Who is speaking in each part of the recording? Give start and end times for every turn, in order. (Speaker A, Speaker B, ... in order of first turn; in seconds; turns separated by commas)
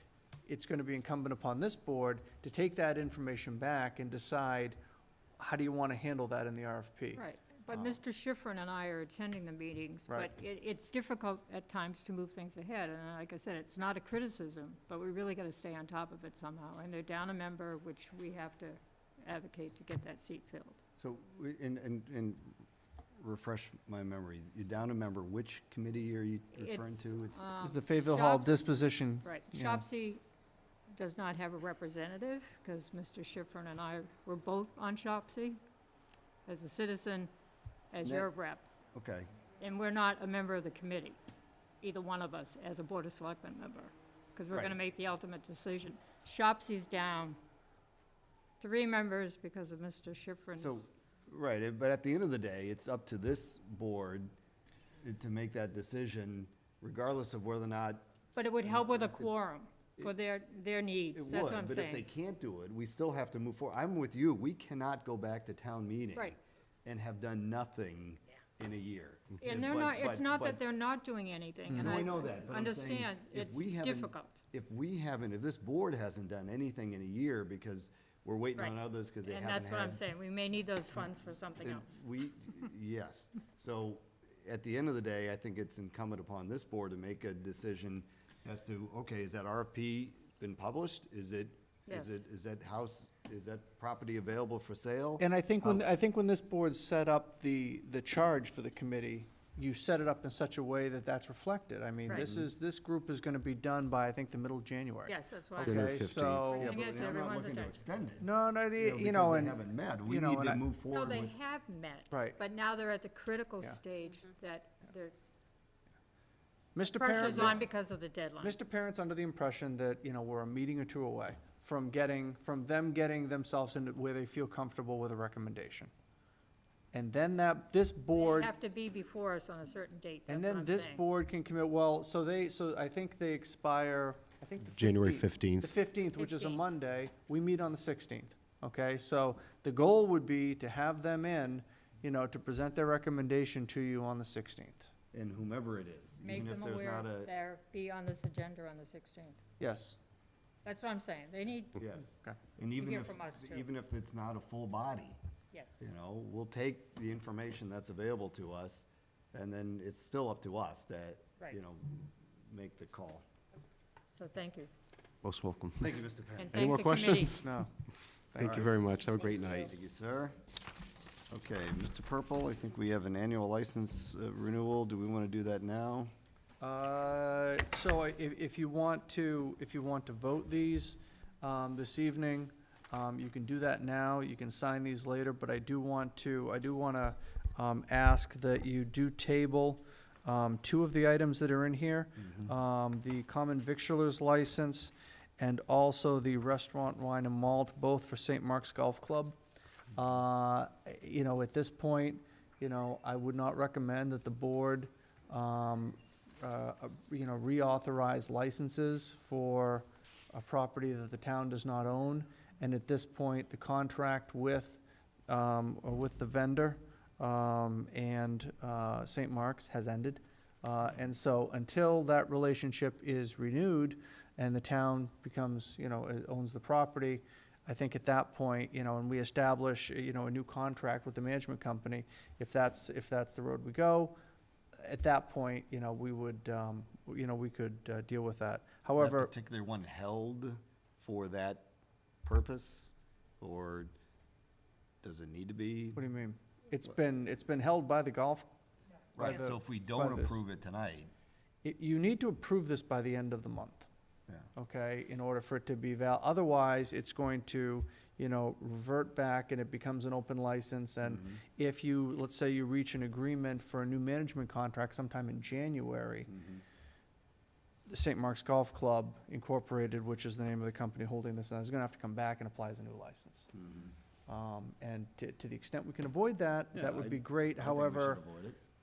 Speaker A: 0.5-4.8, Speaker A: 5.4-7.9, Speaker B: 7.2-20.8, Speaker C: 21.0-22.6, Speaker C: 23.2-27.5, Speaker B: 26.5-30.2, Speaker A: 27.6-29.8, Speaker B: 30.9-35.6, Speaker B: 36.5-37.3, Speaker B: 37.9-38.7, Speaker C: 38.0-38.3, Speaker C: 38.9-39.3, Speaker B: 39.6-41.2, Speaker B: 41.8-47.4, Speaker B: 48.6-50.9, Speaker C: 50.6-54.3, Speaker C: 55.0-58.1, Speaker B: 58.4-62.0, Speaker C: 58.6-59.3, Speaker C: 61.1-70.6, Speaker B: 69.4-74.4, Speaker A: 71.7-72.0, Speaker C: 71.8-80.0, Speaker B: 79.3-81.9, Speaker C: 81.6-95.8, Speaker B: 91.9-92.2, Speaker A: 95.2-106.7, Speaker C: 102.1-102.5, Speaker B: 105.1-107.8, Speaker D: 105.6-106.7, Speaker C: 106.6-111.3, Speaker A: 108.2-110.6, Speaker B: 110.9-115.2, Speaker A: 112.1-112.4, Speaker A: 116.8-117.6, Speaker B: 116.9-118.6, Speaker A: 118.4-125.9, Speaker A: 126.9-128.5, Speaker B: 128.1-131.0, Speaker A: 130.3-144.9, Speaker D: 134.8-135.7, Speaker B: 136.2-136.6, Speaker C: 145.1-147.3, Speaker B: 146.2-149.4, Speaker A: 149.6-150.0, Speaker B: 150.7-151.8, Speaker C: 151.8-155.2, Speaker B: 152.8-153.7, Speaker B: 155.5-155.9, Speaker C: 155.8-163.3, Speaker B: 164.1-164.7, Speaker D: 165.2-166.0, Speaker C: 165.8-166.8, Speaker B: 166.4-167.4, Speaker D: 166.5-167.5, Speaker A: 167.2-167.7, Speaker A: 168.3-168.7, Speaker D: 168.4-169.7, Speaker C: 168.4-168.7, Speaker C: 169.5-170.4, Speaker C: 171.3-176.1, Speaker A: 176.6-199.4, Speaker A: 199.9-234.2, Speaker A: 234.8-239.3, Speaker C: 238.9-241.7, Speaker C: 242.2-243.9, Speaker C: 245.0-246.0, Speaker A: 246.0-248.5, Speaker C: 249.2-251.1, Speaker A: 249.2-250.4, Speaker A: 251.6-253.9, Speaker A: 254.6-266.3, Speaker C: 261.0-261.4, Speaker C: 266.3-266.6, Speaker A: 267.9-273.5, Speaker C: 273.5-273.9, Speaker A: 274.3-278.2, Speaker C: 276.7-278.6